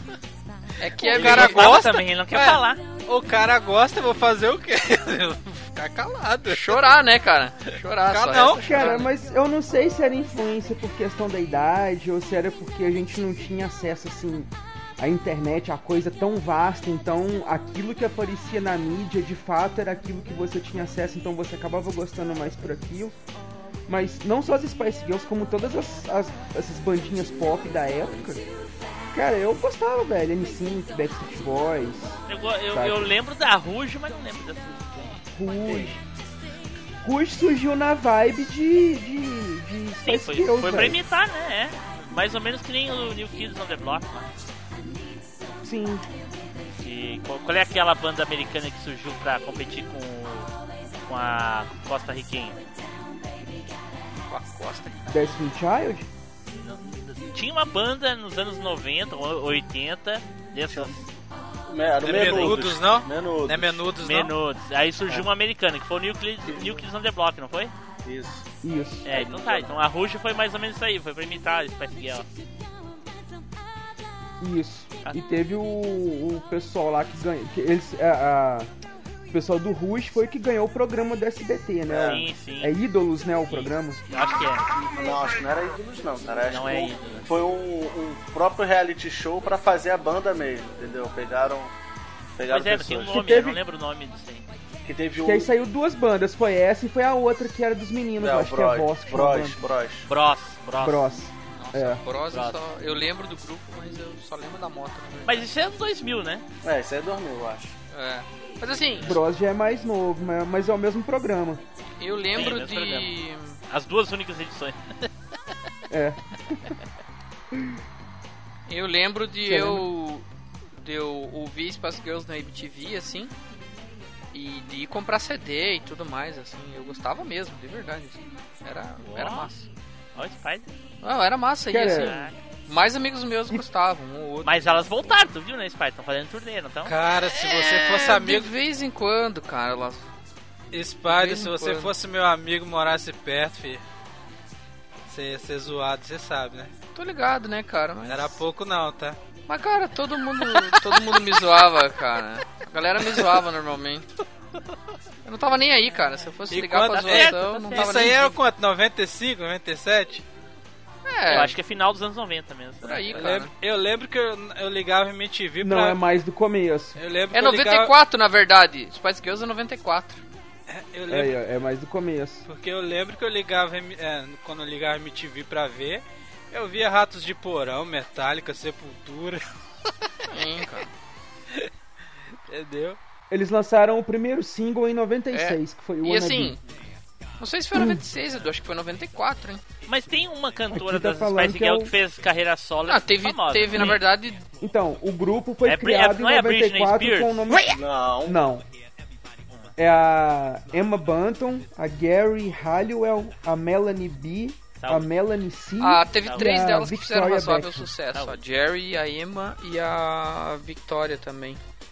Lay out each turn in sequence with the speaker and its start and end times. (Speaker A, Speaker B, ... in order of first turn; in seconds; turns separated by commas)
Speaker A: 0.8-1.7, Speaker B: 1.0-7.0, Speaker C: 1.1-2.8, Speaker A: 6.5-9.1, Speaker B: 8.1-9.0, Speaker D: 8.6-23.1, Speaker D: 23.9-28.4, Speaker D: 29.1-32.2, Speaker C: 32.3-35.2, Speaker D: 32.7-33.1, Speaker D: 35.3-36.0, Speaker D: 37.0-41.0, Speaker C: 40.0-44.3, Speaker D: 45.6-46.0, Speaker C: 46.7-50.5, Speaker C: 51.1-52.6, Speaker A: 54.3-54.9, Speaker D: 55.1-56.1, Speaker C: 56.5-61.0, Speaker E: 61.7-63.9, Speaker B: 62.0-64.3, Speaker C: 62.2-62.5, Speaker C: 64.0-67.7, Speaker E: 66.4-66.8, Speaker E: 68.0-68.4, Speaker D: 68.6-69.1, Speaker C: 69.0-72.3, Speaker E: 69.1-69.7, Speaker D: 74.4-78.7, Speaker D: 79.3-84.2, Speaker E: 81.9-82.3, Speaker C: 82.0-82.7, Speaker C: 83.5-84.7, Speaker E: 84.6-91.7, Speaker C: 86.5-87.3, Speaker E: 92.4-93.1, Speaker C: 92.5-94.5, Speaker D: 93.1-93.6, Speaker E: 94.8-95.5, Speaker D: 95.2-99.6, Speaker E: 98.2-100.1, Speaker C: 100.1-101.0, Speaker D: 100.8-102.0, Speaker A: 101.5-105.5, Speaker C: 102.2-102.9, Speaker C: 105.2-106.4, Speaker E: 106.6-107.7, Speaker A: 107.9-109.1, Speaker D: 109.0-111.6, Speaker A: 112.0-113.6, Speaker C: 112.3-113.1, Speaker C: 113.7-115.1, Speaker D: 115.9-116.7, Speaker A: 118.7-123.3, Speaker D: 119.5-119.8, Speaker A: 124.3-129.7, Speaker C: 129.1-129.5, Speaker C: 130.1-130.7, Speaker A: 131.0-134.8, Speaker D: 131.7-132.3, Speaker C: 131.8-132.3, Speaker C: 134.4-136.9, Speaker B: 136.8-138.5, Speaker A: 137.3-140.1, Speaker B: 140.7-143.8, Speaker A: 141.1-141.9, Speaker B: 145.1-146.7, Speaker A: 146.9-148.4, Speaker B: 148.1-149.2, Speaker A: 149.5-154.1, Speaker B: 150.6-151.0, Speaker A: 155.2-158.4, Speaker B: 156.5-160.2, Speaker C: 157.0-158.0, Speaker A: 161.1-161.6, Speaker C: 161.3-163.3, Speaker A: 162.8-163.5, Speaker B: 163.1-166.0, Speaker D: 165.6-167.0, Speaker B: 166.9-167.9, Speaker A: 167.3-170.2, Speaker B: 170.7-171.4, Speaker D: 171.1-172.4, Speaker B: 172.5-179.4, Speaker A: 180.3-180.9, Speaker B: 182.5-183.0, Speaker D: 183.3-186.6, Speaker A: 185.3-186.6, Speaker A: 187.4-189.6, Speaker D: 187.7-188.0, Speaker C: 189.8-194.0, Speaker D: 190.7-191.9, Speaker A: 192.9-194.4, Speaker D: 194.6-198.6, Speaker C: 195.6-197.6, Speaker E: 197.7-198.4, Speaker D: 199.8-207.9, Speaker C: 204.8-205.1, Speaker A: 205.8-211.6, Speaker C: 206.2-206.7, Speaker C: 208.1-208.4